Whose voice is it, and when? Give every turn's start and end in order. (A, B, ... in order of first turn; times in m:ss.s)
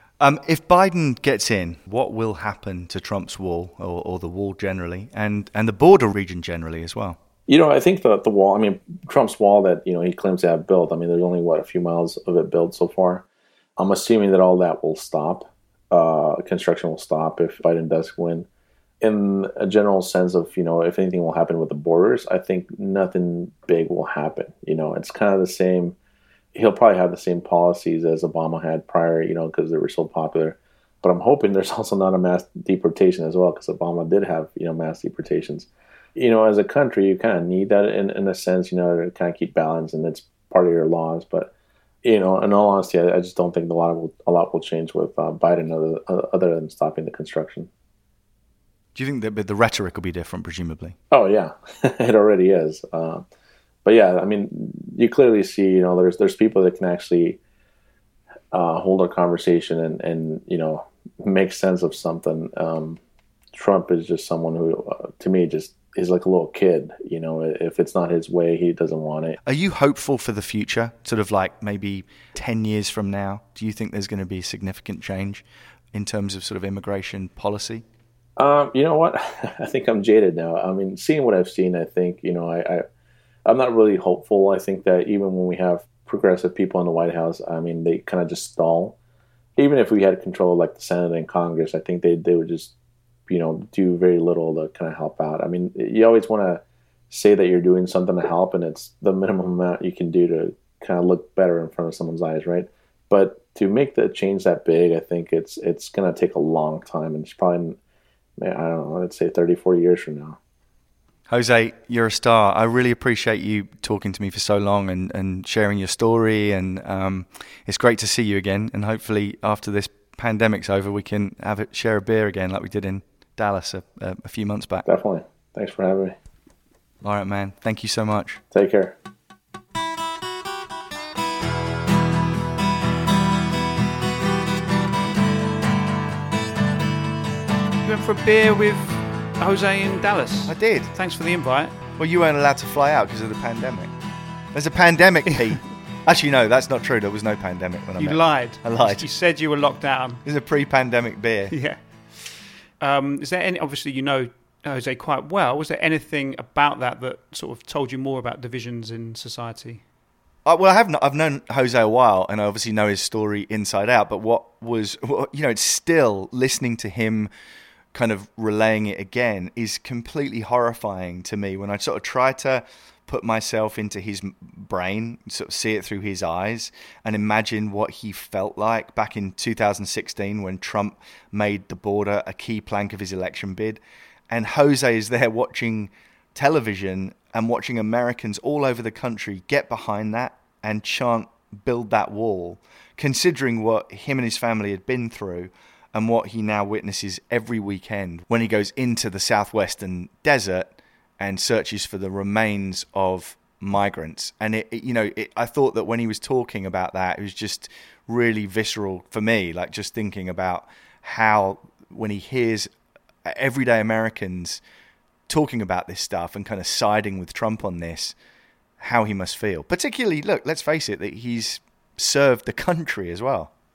0:00.2-0:07.2 A
0:07.5-0:13.2 B
0:13.8-0:18.5 B
0:19.0-0:26.0 B
0:26.5-0:41.5 B
0:42.0-0:47.7 B
0:48.9-0:51.0 A
0:51.1-0:53.2 B
0:53.8-0:57.4 B
0:58.5-1:03.0 B
1:03.5-1:09.4 B
1:09.4-1:17.8 A
1:18.4-1:22.8 B
1:23.4-1:29.0 B
1:29.6-1:32.7 B
1:33.3-1:47.8 B
1:48.4-1:50.4 B
1:51.3-2:04.8 A
2:04.8-2:06.1 B
2:07.0-2:08.4 A
2:08.5-2:08.9 B
2:17.8-2:21.7 C
2:20.5-2:20.9 A
2:22.0-2:23.9 A
2:24.5-2:29.1 A
2:28.0-2:30.2 C
2:30.2-2:31.5 A
2:31.5-2:39.8 C
2:40.4-2:47.3 A
2:47.9-3:32.7 A
3:33.2-3:34.6 A
3:35.3-3:38.2 A
3:38.8-3:43.5 A